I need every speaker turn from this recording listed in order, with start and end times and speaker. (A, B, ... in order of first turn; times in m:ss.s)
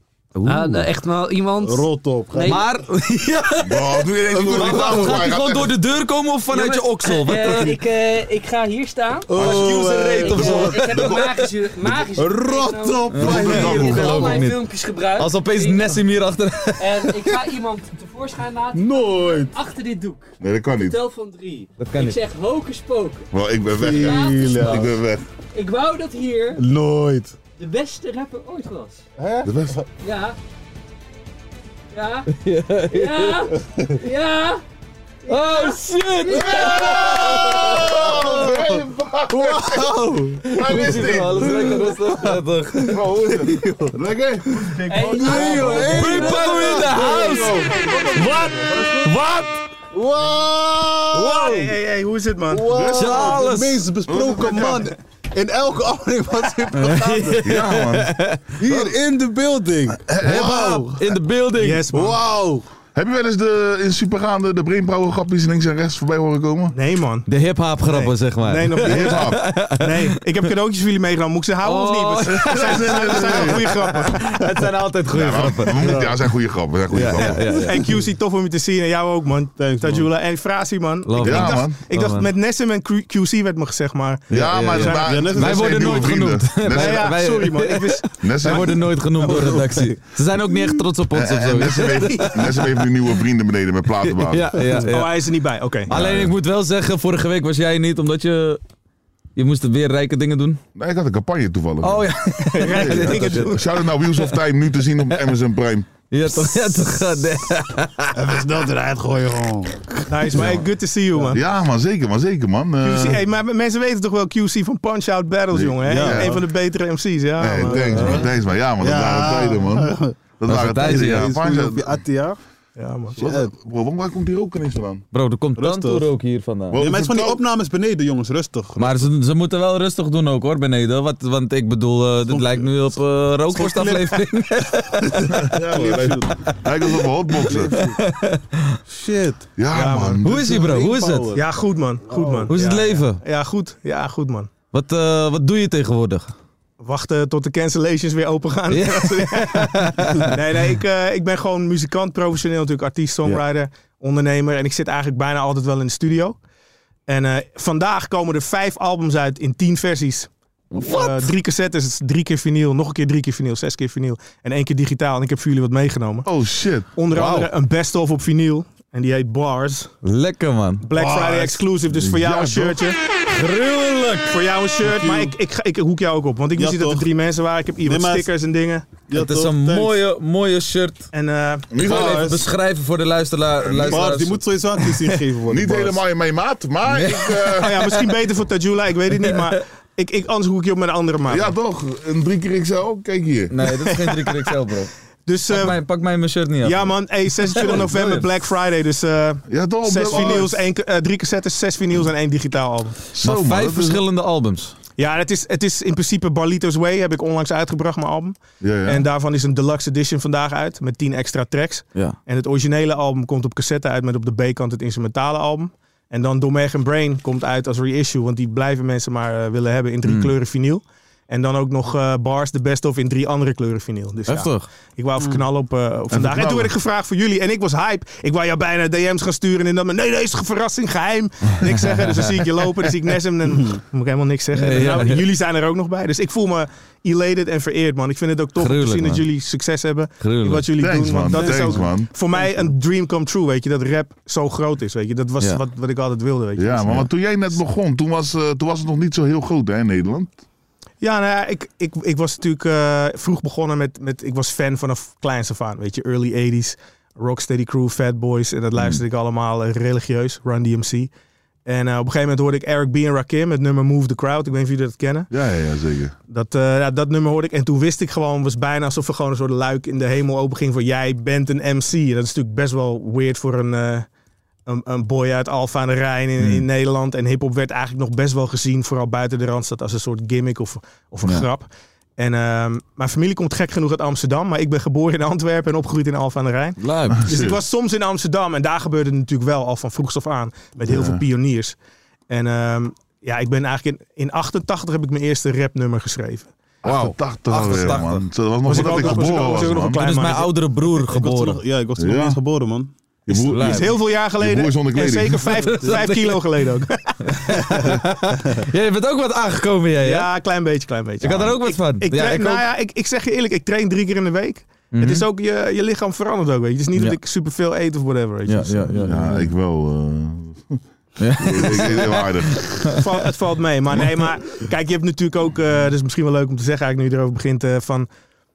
0:00.4-0:00.9 A
0:00.5-0:02.7 B
0:01.6-0:02.6 C
0:02.4-0:07.7 A
0:03.6-0:05.7 D
0:04.6-0:05.3 B
0:06.5-0:16.0 B
0:09.3-0:11.0 C
0:09.4-0:11.3 A
0:10.4-0:11.3 D
0:12.2-0:14.3 C
0:13.1-0:14.4 D
0:13.1-0:14.6 A
0:15.2-0:17.3 A
0:16.8-0:20.3 B
0:18.7-0:19.6 C
0:20.4-0:21.0 D
0:20.8-0:23.3 B
0:21.8-0:22.2 A
0:23.3-0:25.2 D
0:23.7-0:24.9 C
0:24.0-0:24.8 B
0:25.5-0:26.6 B
0:26.6-0:27.3 C
0:27.6-0:29.0 B
0:29.2-0:29.8 C
0:29.4-0:29.8 D
0:30.0-0:30.4 B
0:31.9-0:32.3 B
0:32.3-0:33.5 A
0:32.9-0:34.6 B
0:35.2-0:36.9 B
0:35.3-0:38.6 A
0:36.3-0:41.9 D
0:37.7-0:38.7 C
0:39.3-0:42.3 C
0:40.5-0:43.1 A
0:42.9-0:47.9 D
0:42.9-0:44.0 C
0:44.6-0:49.2 C
0:44.9-0:46.6 B
0:45.7-0:49.5 A
0:49.9-0:51.7 C
0:51.2-0:52.7 E
0:52.5-0:57.4 C
0:52.7-0:53.5 D
0:52.9-0:53.8 A
0:54.1-0:54.9 D
0:56.7-0:58.4 A
0:57.4-0:59.0 D
0:58.6-1:01.0 C
1:00.0-1:00.9 D
1:00.3-1:01.8 A
1:01.6-1:02.2 E
1:01.9-1:02.6 C
1:03.0-1:06.8 D
1:06.7-1:07.3 E
1:07.3-1:10.1 A
1:07.9-1:14.4 E
1:08.8-1:09.4 D
1:11.6-1:16.2 A
1:12.4-1:13.6 D
1:15.1-1:17.6 D
1:15.8-1:16.1 C
1:16.9-1:17.9 A
1:17.5-1:17.9 C
1:17.6-1:25.1 E
1:19.6-1:20.1 C
1:21.1-1:22.3 A
1:21.2-1:21.8 D
1:24.3-1:27.2 D
1:24.3-1:32.7 A
1:25.0-1:26.0 C
1:26.7-1:28.1 E
1:28.2-1:28.8 D
1:29.2-1:30.0 C
1:31.1-1:34.8 D
1:34.1-1:35.2 A
1:34.6-1:34.9 C
1:34.9-1:35.9 E
1:35.9-1:36.3 D
1:35.9-1:38.6 A
1:39.4-1:40.6 A
1:40.8-1:42.1 D
1:41.8-1:43.6 A
1:42.6-1:43.7 E
1:42.6-1:45.9 D
1:46.1-1:48.4 A
1:48.1-1:50.6 C
1:50.1-1:51.4 E
1:51.3-1:53.2 D
1:52.8-1:58.2 E
1:55.5-1:56.4 D
1:55.8-1:56.4 C
1:57.4-2:02.0 D
1:57.6-2:02.4 C
2:00.5-2:01.3 A
2:02.8-2:03.2 E
2:03.2-2:03.5 C
2:03.2-2:05.0 D
2:05.1-2:06.8 A
2:05.6-2:06.1 C
2:06.7-2:07.4 D
2:06.8-2:09.1 C
2:08.8-2:15.4 A
2:12.3-2:12.8 C
2:13.5-2:14.2 C
2:15.0-2:16.4 C
2:15.4-2:17.7 D
2:17.4-2:18.0 C
2:17.7-2:18.8 A
2:18.9-2:19.6 C
2:19.6-2:20.6 D
2:19.7-2:20.2 E
2:20.2-2:21.4 A
2:20.3-2:21.5 C
2:21.4-2:24.5 E
2:22.0-2:22.6 C
2:22.5-2:23.2 A
2:24.7-2:26.3 A
2:26.8-2:36.4 E
2:28.7-2:30.4 A
2:37.1-2:46.3 E
2:40.7-2:41.3 A
2:46.2-2:46.9 D
2:47.0-2:49.9 E
2:47.1-2:47.5 A
2:50.0-2:50.9 A
2:50.8-2:53.0 E
2:50.9-2:51.6 C
2:51.9-2:52.8 D
2:53.3-2:54.4 A
2:54.3-2:59.0 E
2:54.8-2:55.3 C
2:56.6-2:57.1 C
2:57.8-2:58.3 C
2:59.1-3:00.0 C
2:59.1-3:01.1 A
3:01.1-3:02.0 E
3:01.7-3:02.3 D
3:01.8-3:04.4 A
3:01.8-3:02.4 C
3:03.6-3:04.2 D
3:03.8-3:06.0 C
3:05.5-3:07.9 D
3:07.1-3:07.5 A
3:07.6-3:11.5 E
3:11.3-3:13.5 D
3:13.5-3:14.9 A
3:13.8-3:14.5 E
3:15.3-3:15.8 E
3:15.5-3:16.9 A
3:16.6-3:23.0 E
3:17.4-3:18.3 A
3:19.5-3:20.6 D
3:20.1-3:20.4 A
3:23.1-3:24.0 D
3:23.2-3:24.8 A
3:25.0-4:07.0 E
3:28.6-3:29.0 D
3:40.0-3:40.3 A
3:44.3-3:44.7 A
3:46.1-3:46.7 D
3:54.5-3:55.3 A
3:58.6-3:59.2 A
4:00.2-4:00.7 A
4:00.8-4:02.1 D
4:01.3-4:01.6 A
4:01.6-4:01.8 C
4:06.6-4:10.4 D
4:11.0-4:21.1 E
4:21.7-4:25.3 E
4:25.3-4:26.2 D
4:26.3-4:34.1 E
4:34.7-4:51.8 E
4:36.4-4:36.7 A
4:46.8-4:47.2 A
4:47.2-4:47.6 D
4:50.9-4:51.2 D
4:52.3-4:56.5 E
4:56.8-5:00.0 D
4:56.8-5:01.6 A
4:58.7-5:00.5 E
5:01.1-5:02.9 C
5:02.0-5:02.4 D
5:03.3-5:05.8 D
5:03.3-5:03.9 A
5:03.6-5:07.3 E
5:05.6-5:06.4 A
5:07.3-5:10.3 A
5:10.0-5:19.1 E
5:11.2-5:12.6 A
5:14.9-5:15.2 A
5:18.5-5:19.5 A
5:19.0-5:20.8 D
5:21.2-5:22.6 A
5:21.4-5:22.9 D
5:23.0-5:28.1 E